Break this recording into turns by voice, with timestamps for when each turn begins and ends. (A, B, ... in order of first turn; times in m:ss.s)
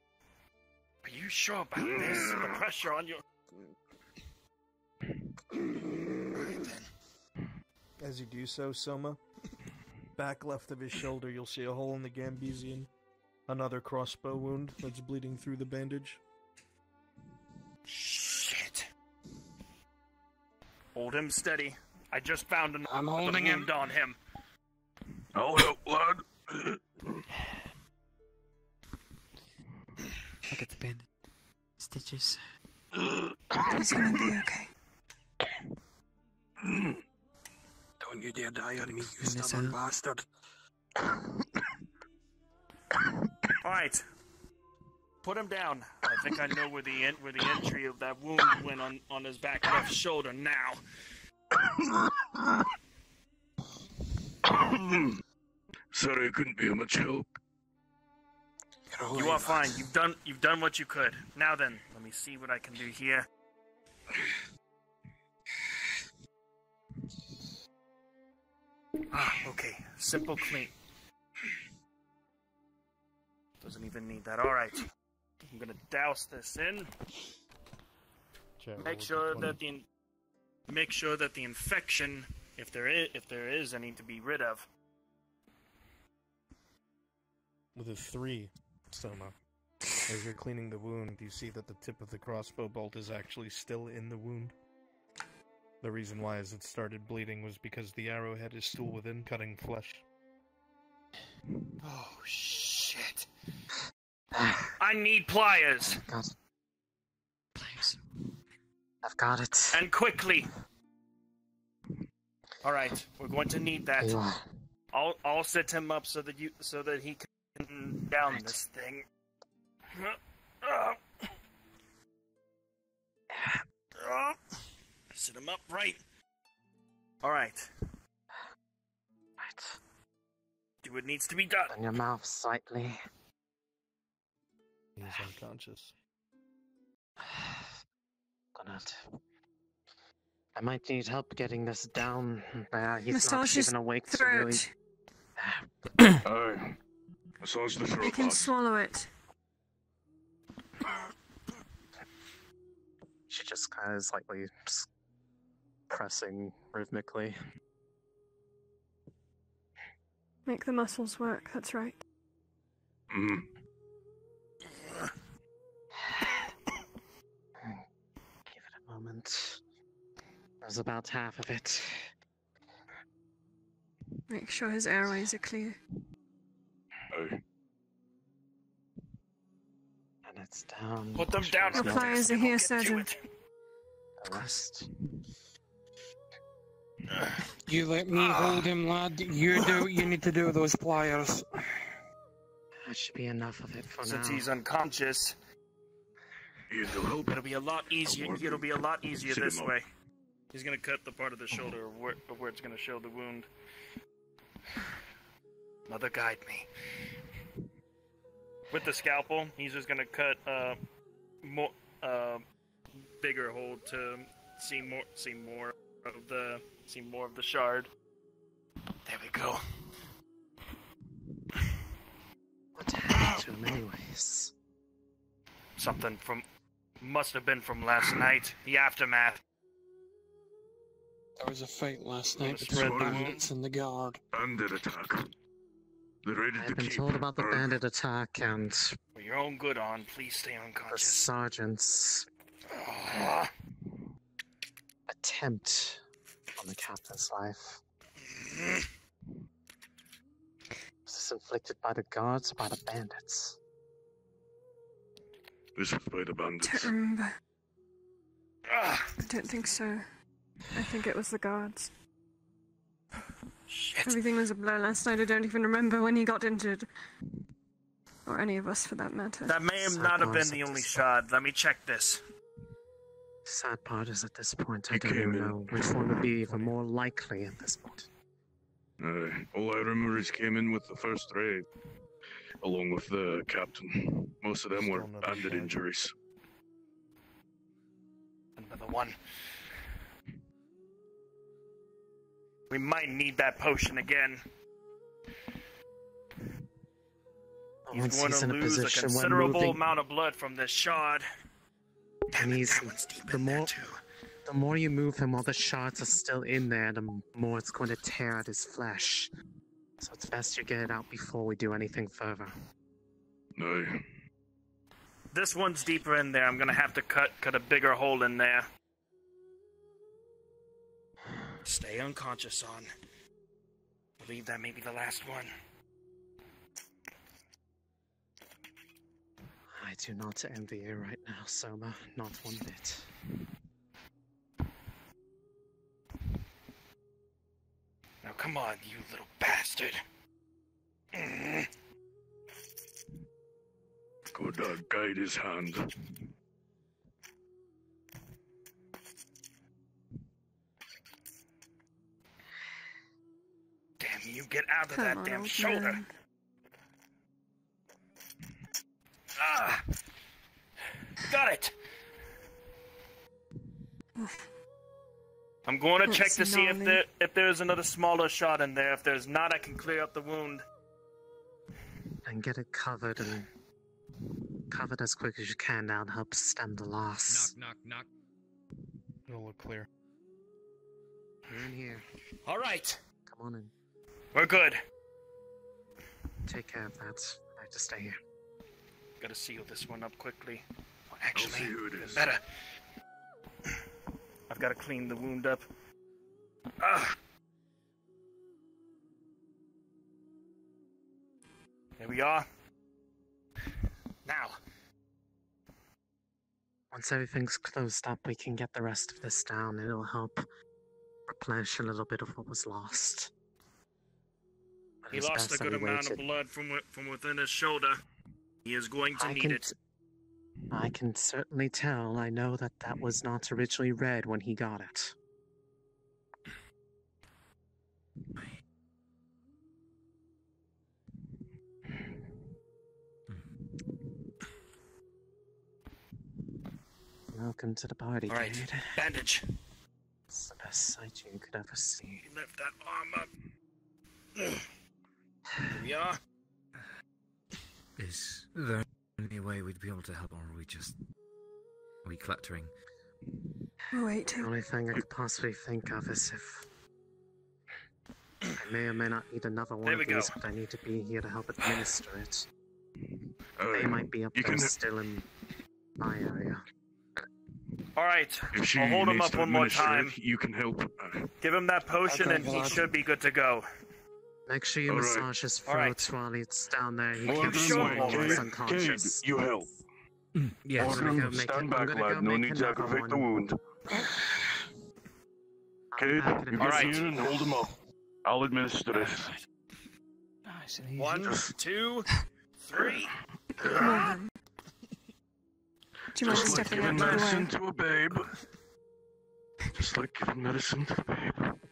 0:01.0-0:03.2 A
0:06.3-0:06.8 A
0:08.0-0:09.2 B
0:10.2-0:12.9 B
0:13.5-0:16.2 B
0:17.9-0:18.9 A
0:20.9-0:24.2 A
0:22.9-0:23.7 C
0:25.3-0:27.2 D
0:30.5-0:31.1 E
0:31.8-0:32.4 E
0:33.7-0:34.7 F
0:36.7-0:36.9 C
0:38.0-0:40.2 C
0:39.1-0:39.8 E
0:43.6-0:44.0 A
0:45.2-0:50.8 A
0:54.5-0:55.2 D
0:55.9-0:57.3 D
0:58.9-0:59.8 C
0:59.1-1:03.2 A
1:09.1-1:10.7 A
1:13.6-1:14.8 A
1:15.5-1:16.9 A
1:18.6-1:19.6 B
1:18.8-1:19.8 A
1:20.7-1:24.7 A
1:27.7-1:29.3 B
1:30.1-1:34.5 B
1:35.8-1:40.0 B
1:41.8-1:43.3 A
1:44.3-1:44.7 G
1:44.8-1:46.0 A
1:45.8-1:46.3 G
1:47.6-1:48.0 E
1:49.0-1:49.8 G
1:49.7-1:50.5 A
1:52.6-1:54.2 A
1:54.0-1:54.4 G
1:54.9-1:59.0 A
1:58.3-1:58.6 G
1:59.9-2:01.0 A
2:03.3-2:03.6 G
2:04.0-2:04.4 A
2:05.1-2:06.0 A
2:07.2-2:07.7 A
2:09.4-2:09.8 G
2:10.8-2:11.7 A
2:11.7-2:12.9 G
2:15.0-2:15.9 B
2:17.2-2:17.7 G
2:18.5-2:19.0 G
2:20.5-2:24.6 G
2:23.1-2:24.7 F
2:25.4-2:26.0 G
2:26.2-2:26.8 D
2:27.4-2:28.5 D
2:28.0-2:29.1 F
2:33.3-2:34.9 G
2:35.9-2:37.4 G
2:40.4-2:42.0 F
2:43.1-2:43.5 D
2:46.0-2:46.5 G
2:48.4-2:49.6 G
2:50.6-2:52.1 G
2:54.3-2:55.8 F
2:57.1-2:57.4 D
3:00.2-3:02.3 G
3:01.1-3:03.2 A
3:01.7-3:03.1 F
3:04.2-3:04.9 G
3:07.6-3:11.5 C
3:08.1-3:08.7 A
3:12.8-3:14.5 G
3:14.0-3:15.3 A
3:16.7-3:17.4 D
3:17.3-3:19.9 A
3:18.0-3:18.6 D
3:19.2-3:19.7 D
3:20.5-3:23.5 A
3:25.9-3:26.7 A
3:28.7-3:30.8 A
3:31.4-3:32.4 A
3:33.0-3:37.9 A
3:39.0-3:39.6 A
3:42.7-3:44.5 G
3:45.8-3:46.4 A
3:47.0-3:49.4 A
3:51.4-3:54.2 C
3:52.4-3:53.4 A
3:52.6-3:53.4 D
3:54.3-3:55.3 D
3:56.2-3:57.7 D
3:56.6-3:59.0 G
3:59.1-4:01.3 A
4:00.9-4:02.3 G
4:02.7-4:03.5 A
4:05.1-4:06.0 G
4:06.6-4:07.8 G
4:08.3-4:08.8 A
4:11.0-4:13.6 G
4:15.8-4:16.9 D
4:16.6-4:17.3 F
4:18.7-4:19.1 A
4:19.2-4:20.0 F
4:20.7-4:21.9 F
4:23.7-4:24.2 A
4:24.0-4:26.9 F
4:28.2-4:29.6 F
4:29.4-4:32.2 A
4:29.8-4:31.0 G
4:33.4-4:38.1 G
4:34.9-4:36.2 D
4:36.3-4:36.8 B
4:39.0-4:41.6 D
4:42.6-4:46.1 D
4:44.7-4:45.7 B
4:48.6-4:49.2 A
4:52.7-4:54.4 A
4:57.9-4:59.8 G
4:57.9-5:01.2 A
5:02.3-5:04.0 A
5:02.4-5:03.7 G
5:04.4-5:09.3 G
5:10.0-5:12.6 G
5:13.6-5:14.0 D
5:15.3-5:18.7 A
5:21.6-5:22.9 A
5:24.2-5:25.5 A
5:29.7-5:33.1 G
5:38.2-5:40.0 A
5:41.1-5:41.7 A
5:44.3-5:45.8 D
5:54.0-5:56.0 A
5:54.9-5:56.1 F
5:59.4-5:59.8 A
6:01.2-6:01.7 A
6:05.6-6:10.6 A
6:06.0-6:07.0 F
6:12.2-6:13.5 G
6:14.7-6:17.5 G
6:17.3-6:18.1 H
6:19.3-6:19.9 B
6:21.5-6:22.0 G
6:22.4-6:23.0 A
6:23.2-6:23.7 G
6:24.3-6:24.8 A
6:26.4-6:28.2 G
6:29.2-6:32.4 A
6:31.3-6:32.3 D
6:34.5-6:35.6 A
6:36.8-6:37.2 A
6:42.0-6:42.4 A
6:44.2-6:44.6 A
6:46.9-6:50.4 G
6:51.3-6:53.3 G
6:55.0-6:56.2 G
6:55.1-6:58.0 A
6:58.6-6:59.6 A
6:59.2-6:59.7 G
7:00.7-7:05.1 G
7:17.3-7:18.9 G
7:18.3-7:19.4 A
7:20.3-7:22.2 G
7:22.2-7:23.3 A
7:24.4-7:24.6 A
7:25.7-7:26.2 A
7:28.0-7:30.9 H
7:32.0-7:32.7 H
7:33.9-7:34.5 F
7:34.2-7:36.6 G
7:38.6-7:42.4 G
7:39.8-7:40.3 A
7:43.6-7:44.7 D
7:43.7-7:45.2 G
7:46.0-7:46.6 G
7:48.0-7:50.1 A
7:48.5-7:51.3 D
7:51.4-7:53.6 A
7:52.1-7:52.8 G
7:52.1-7:52.8 C
7:54.5-7:59.2 G
7:54.9-7:55.3 D
7:55.6-7:56.1 A
7:57.2-7:59.7 D
7:57.2-7:58.5 A
8:00.3-8:01.3 H
8:00.8-8:03.3 G
8:00.8-8:04.1 D
8:05.9-8:07.6 G
8:06.0-8:07.7 D
8:06.6-8:07.1 A
8:08.2-8:09.3 D
8:10.4-8:11.3 C
8:11.0-8:12.1 A
8:12.7-8:13.1 A
8:13.7-8:14.2 F
8:16.1-8:17.5 F
8:16.2-8:18.3 D
8:16.3-8:17.2 A
8:19.7-8:21.6 D